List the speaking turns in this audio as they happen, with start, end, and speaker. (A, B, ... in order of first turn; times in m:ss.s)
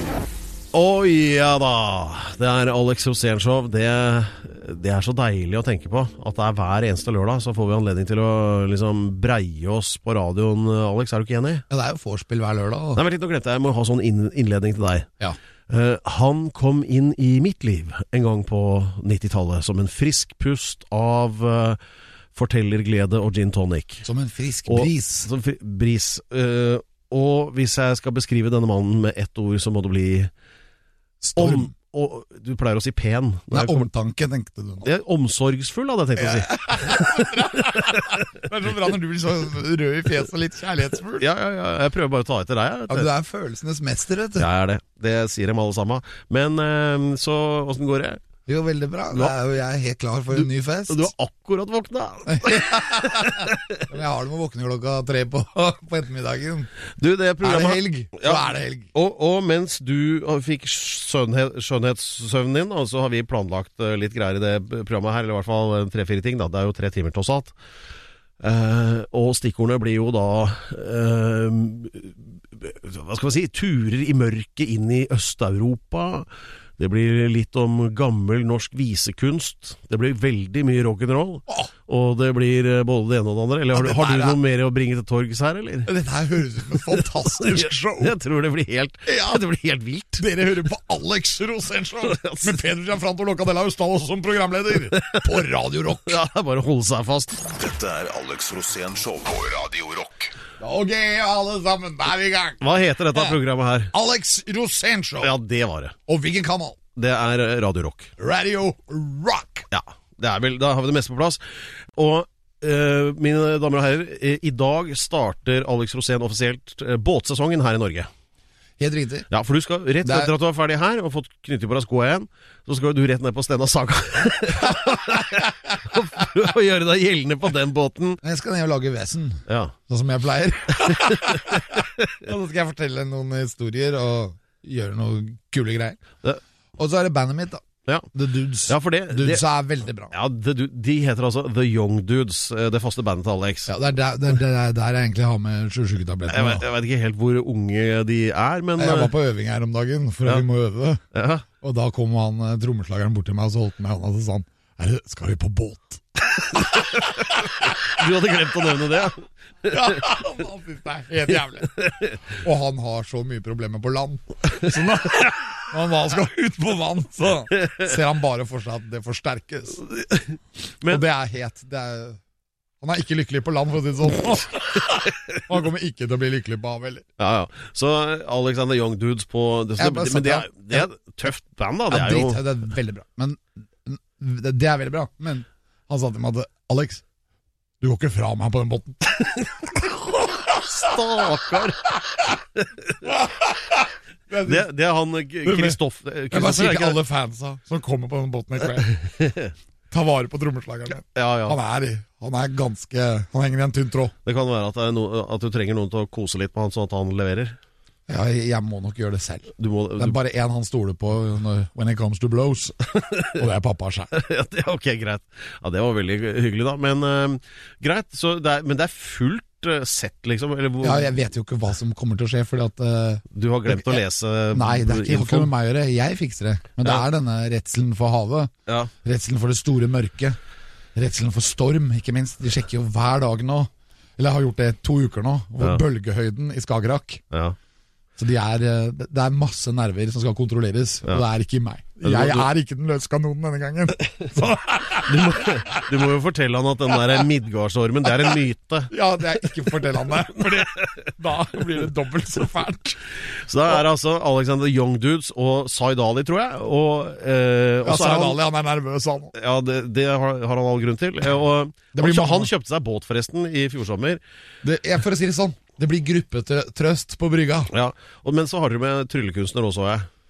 0:00.7-0:11.6 A
0:11.7-0:13.0 B
0:13.0-0:15.1 A
0:15.7-0:21.8 A
0:22.4-0:24.1 A
0:24.0-0:25.3 B
0:24.7-0:30.3 A
0:31.2-0:31.7 B
0:31.4-0:33.9 A
0:33.5-0:34.9 B
0:34.8-0:38.2 A
0:36.2-0:41.3 B
0:41.2-0:43.1 A
0:42.9-0:44.5 B
0:44.4-0:48.2 A
0:48.5-0:51.1 B
0:50.3-0:53.6 A
0:52.3-0:56.7 B
0:57.0-1:07.5 A
0:57.4-0:58.9 B
1:08.4-1:16.3 A
1:16.8-1:25.9 A
1:23.7-1:24.4 B
1:25.9-1:28.2 B
1:26.9-1:30.2 A
1:29.1-1:29.4 B
1:30.2-1:36.2 B
1:32.0-1:32.6 A
1:34.9-1:35.3 A
1:36.0-1:37.4 A
1:37.4-1:40.3 C
1:40.6-1:43.4 B
1:42.6-1:43.9 A
1:43.9-1:45.3 B
1:45.2-1:46.0 A
1:46.1-1:46.8 B
1:47.0-1:48.1 A
1:48.2-1:49.7 B
1:49.7-1:51.4 A
1:52.0-1:58.1 A
1:58.8-1:59.3 B
1:59.3-2:08.2 A
2:00.0-2:00.3 B
2:04.7-2:05.4 B
2:08.2-2:16.0 B
2:09.5-2:09.8 A
2:16.8-2:17.6 B
2:18.1-2:20.1 B
2:18.7-2:19.4 A
2:20.1-2:23.7 A
2:23.7-2:26.6 B
2:26.3-2:29.1 A
2:28.8-2:31.0 B
2:31.1-2:31.4 A
2:31.6-2:37.8 B
2:36.6-2:39.8 A
2:39.7-2:49.8 B
2:41.8-2:42.2 A
2:49.8-2:51.0 A
2:50.8-2:52.2 B
2:52.8-2:57.0 B
2:57.2-3:02.4 A
2:59.8-3:00.9 B
3:01.9-3:07.0 B
3:07.8-3:09.3 B
3:10.6-3:13.0 A
3:13.1-3:14.7 B
3:14.5-3:17.0 A
3:15.4-3:15.8 B
3:16.3-3:19.0 B
3:19.2-3:19.5 A
3:19.9-3:24.1 B
3:21.0-3:21.6 A
3:24.2-3:27.6 A
3:28.1-3:32.8 B
3:29.6-3:30.2 A
3:32.9-3:33.4 A
3:33.4-3:34.1 B
3:34.1-3:41.2 A
3:40.8-3:44.0 B
3:43.3-3:45.5 A
3:44.5-3:48.5 B
3:49.0-3:50.4 B
3:51.0-3:57.2 B
3:58.2-4:05.9 B
4:02.0-4:02.5 A
4:05.1-4:08.9 A
4:08.9-4:13.0 B
4:09.7-4:11.0 A
4:13.5-4:18.4 A
4:17.8-4:19.3 B
4:19.4-4:24.2 A
4:21.9-4:22.5 B
4:24.6-4:27.7 B
4:27.7-4:30.1 A